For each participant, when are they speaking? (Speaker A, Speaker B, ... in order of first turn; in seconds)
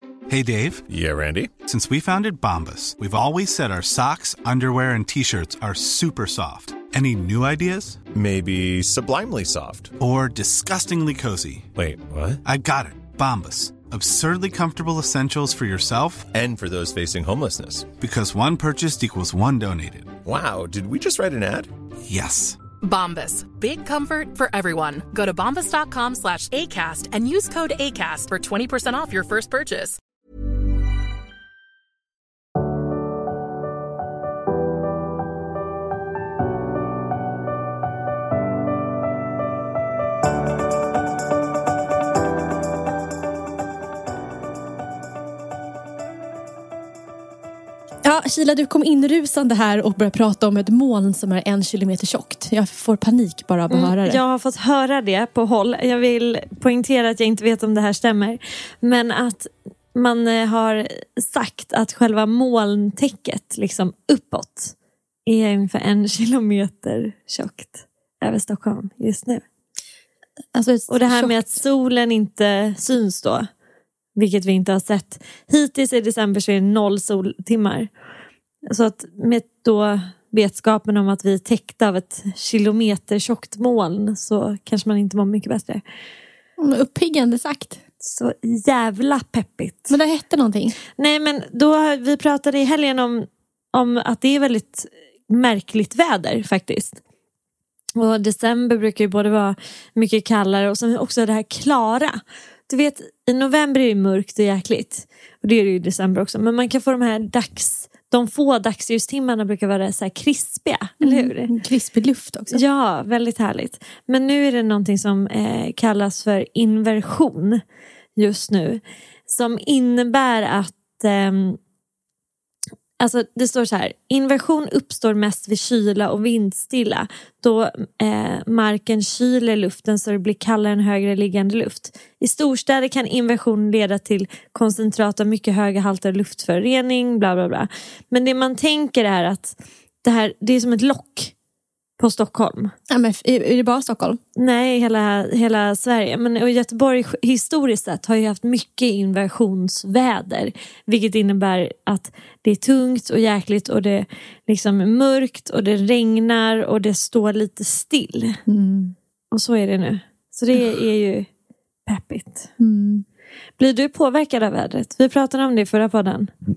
Speaker A: 0.3-0.8, 1.6-8.0, 10.0-11.7, 12.4-16.3, 18.0-20.1, 22.0-22.6
Speaker B: 0.9-1.5, 8.1-9.9, 11.7-12.4, 16.3-17.9, 20.2-21.7
Speaker C: 22.8-30.0
Speaker D: 48.0-54.2, 70.5-71.6, 86.6-87.8, 89.9-90.8, 111.0-112.6, 142.9-144.2, 158.5-158.9, 162.6-163.0
Speaker E: 53.7-64.7, 65.2-69.4, 70.9-73.5, 74.2-77.9, 78.7-85.8, 88.0-90.0, 91.0-97.0, 98.0-111.5, 112.5-117.6, 118.2-121.6, 123.0-141.3, 142.0-142.7, 144.4-158.4, 159.3-161.3, 161.8-162.5, 163.6-166.3